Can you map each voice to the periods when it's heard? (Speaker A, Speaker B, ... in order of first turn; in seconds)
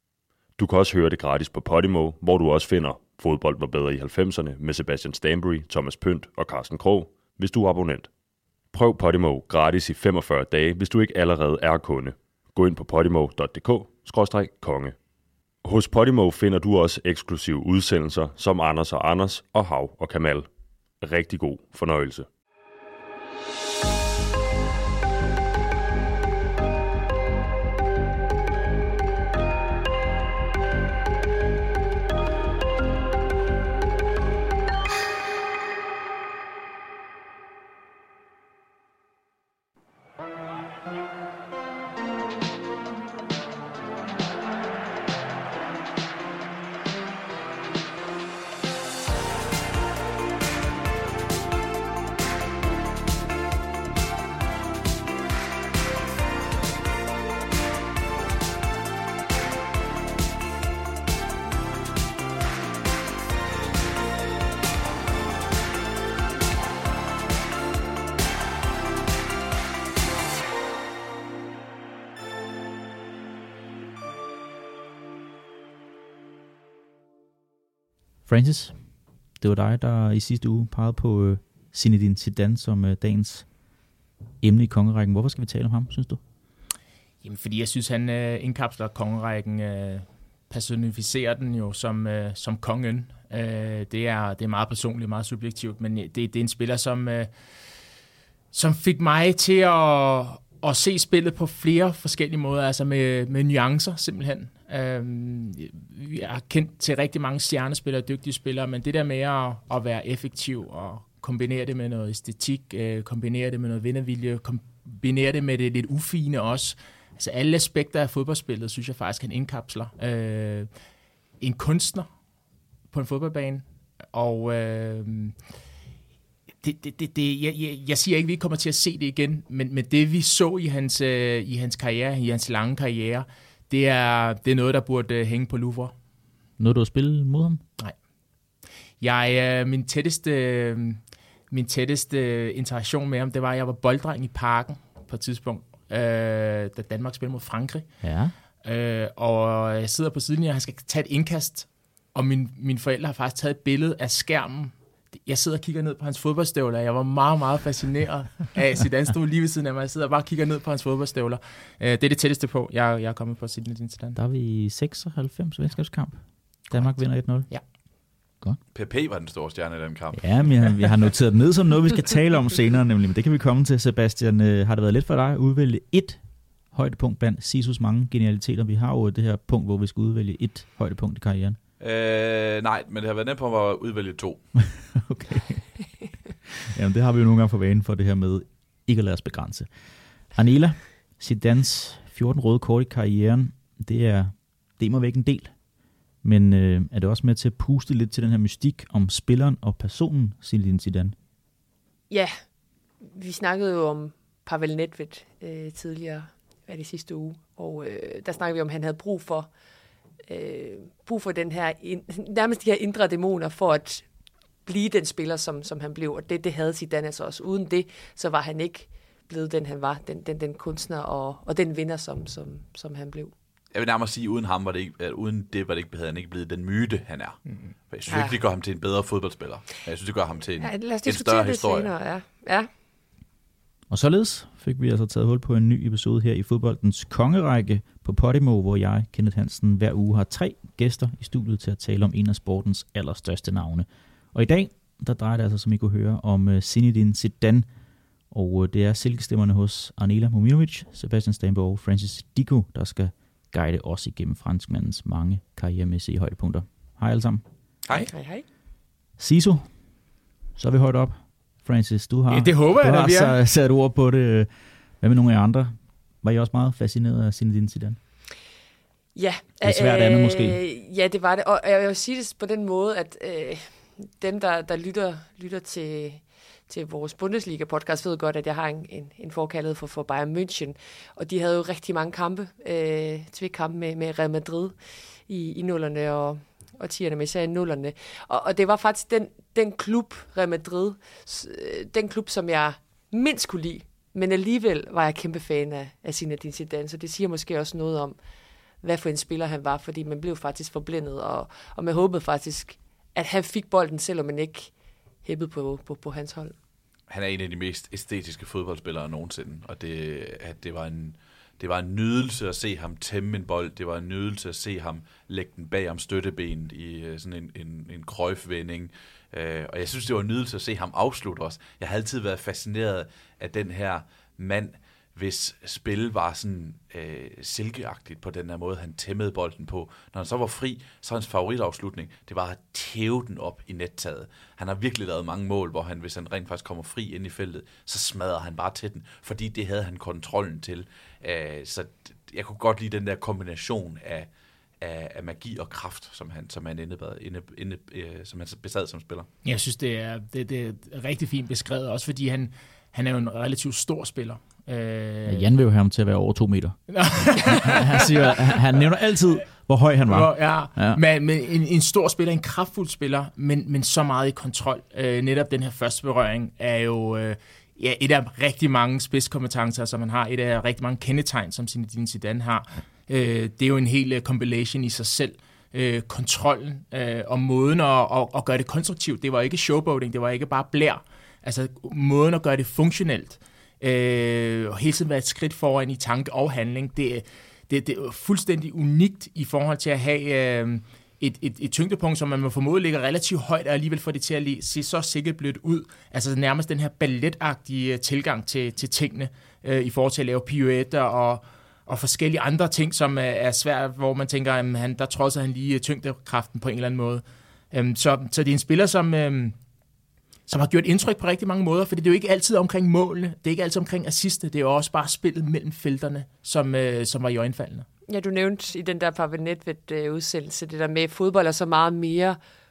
Speaker A: 0.6-8.1, 8.7-14.9, 15.6-20.5, 21.0-22.3
Speaker B: 78.3-83.5, 84.4-86.2, 136.6-137.6, 148.0-148.3, 164.2-167.8, 170.1-181.6, 184.8-185.9, 186.7-189.7, 190.3-195.6, 196.2-201.2, 233.9-247.7, 248.3-257.4, 259.2-259.8, 260.6-264.5, 265.0-268.0, 269.6-270.6, 355.3-361.0
Speaker C: 87.2-97.3, 98.5-120.7, 121.4-122.1, 122.9-125.4, 126.6-135.9, 139.0-147.9, 148.6-164.2, 166.7-167.6, 262.3-263.4, 349.4-355.5, 356.9-358.8, 360.1-409.6, 410.5-417.9
Speaker D: 168.7-170.8, 181.8-184.5, 223.7-231.9, 307.1-344.3, 344.8-349.3
Speaker E: 203.0-209.5, 210.3-214.1, 214.7-223.3, 228.1-228.4, 230.6-232.7, 258.1-258.4, 269.1-284.8, 285.3-298.2, 298.8-304.7, 305.2-306.6, 418.1-422.4